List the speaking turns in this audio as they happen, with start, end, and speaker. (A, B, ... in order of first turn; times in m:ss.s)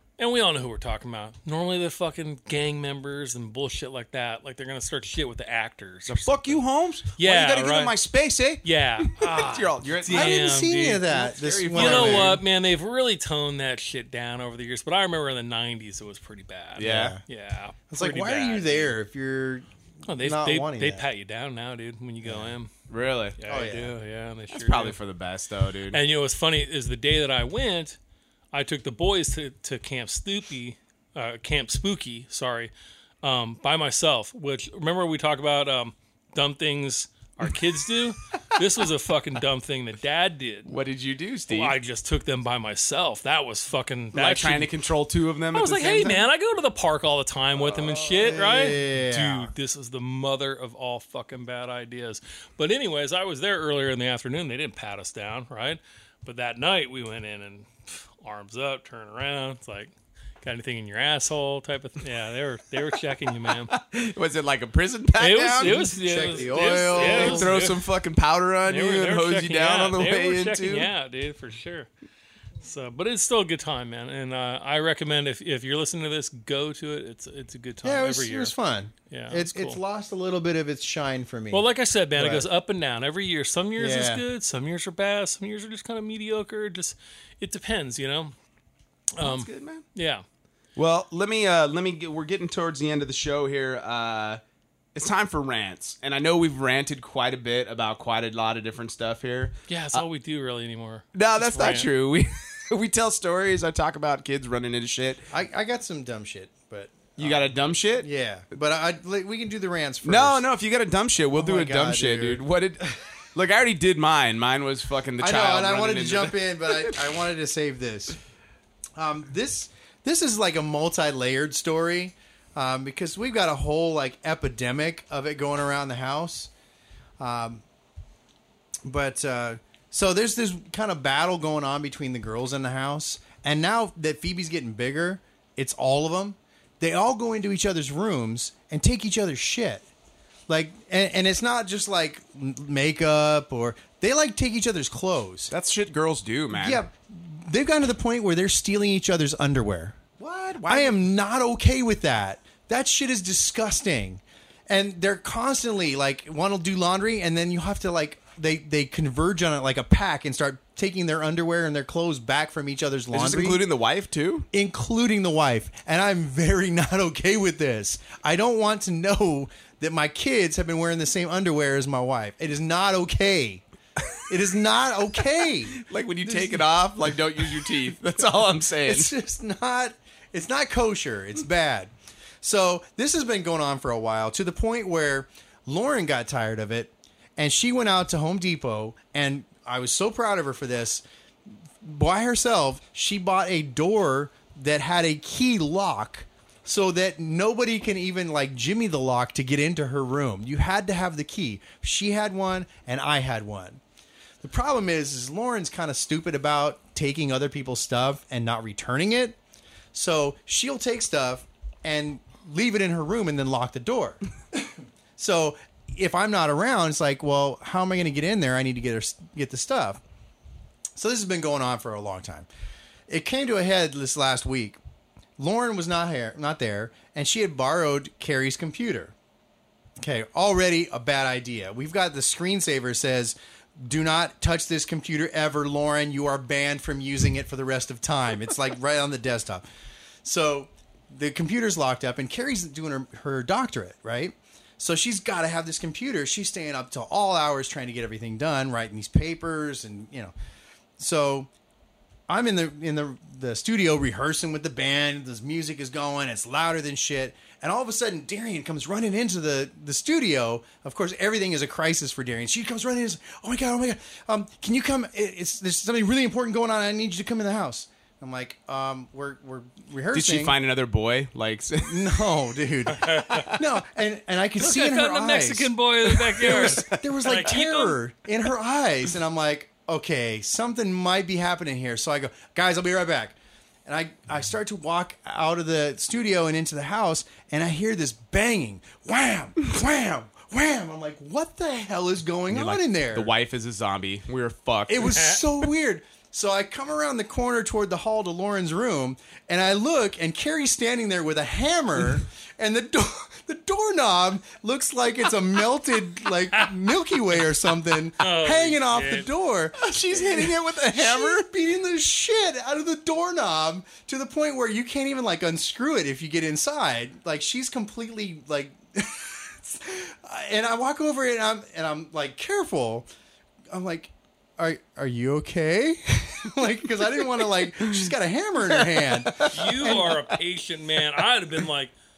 0:00.2-0:06.6 A
0:06.1-0:10.5 B
0:07.2-0:07.9 A
0:08.6-0:11.2 A
0:10.1-0:12.4 C
0:11.1-0:12.4 B
0:11.7-0:18.9 A
0:16.8-0:17.2 B
0:16.8-0:17.2 C
0:17.9-0:21.0 C
0:20.0-0:22.7 A
0:22.2-0:22.5 C
0:22.9-0:23.4 B
0:23.4-0:25.0 A
0:23.5-0:23.9 C
0:24.5-0:26.0 B
0:25.9-0:28.0 A
0:28.5-0:32.7 A
0:33.2-0:40.7 A
0:40.6-0:41.7 B
0:41.5-0:44.7 A
0:44.1-0:46.2 B
0:45.5-1:03.7 A
0:48.2-0:49.5 C
1:03.4-1:05.9 B
1:05.2-1:07.8 A
1:05.6-1:07.5 C
1:06.9-1:10.9 B
1:08.7-1:11.9 A
1:12.6-1:18.5 A
1:17.8-1:21.6 C
1:19.1-1:19.8 A
1:21.5-1:28.3 A
1:22.2-1:22.5 C
1:23.8-1:24.2 C
1:29.1-1:30.2 A
1:29.2-1:29.8 B
1:30.8-1:34.4 B
1:34.9-1:40.0 B
1:39.7-1:41.9 A
1:41.1-1:45.2 B
1:45.3-1:50.4 C
1:47.2-1:48.1 B
1:50.0-1:57.2 B
1:51.4-1:52.4 C
1:55.2-1:58.2 C
1:59.0-2:06.5 C
2:07.2-2:07.6 C
2:08.8-2:19.8 C
2:20.5-2:25.5 C
2:25.5-2:26.8 B
2:26.5-2:43.6 C
2:30.2-2:31.0 B
2:43.1-2:44.5 B
2:44.5-2:53.6 C
2:54.3-2:56.7 C
2:55.7-2:59.1 B
2:57.4-2:57.7 C
2:58.8-3:01.9 C
3:02.4-3:11.0 C
3:11.8-3:23.8 C
3:24.4-3:29.4 C
3:29.9-3:40.0 C
3:41.0-3:42.5 C
3:43.1-3:44.8 C
3:45.4-3:49.1 C
3:50.0-3:59.6 C
4:00.2-4:10.3 C
4:11.0-4:11.5 C
4:12.3-4:30.5 C
4:30.1-4:32.3 B
4:31.8-4:35.7 C
4:32.9-4:33.5 A
4:34.6-4:38.0 A
4:36.3-4:53.3 C
4:36.4-4:37.0 B
4:52.5-4:55.4 B
4:54.9-5:23.1 C
5:08.2-5:09.3 A
5:09.8-5:11.4 B
5:23.7-5:30.2 C
5:27.2-5:28.1 B
5:28.6-5:30.0 B
5:29.5-5:31.9 A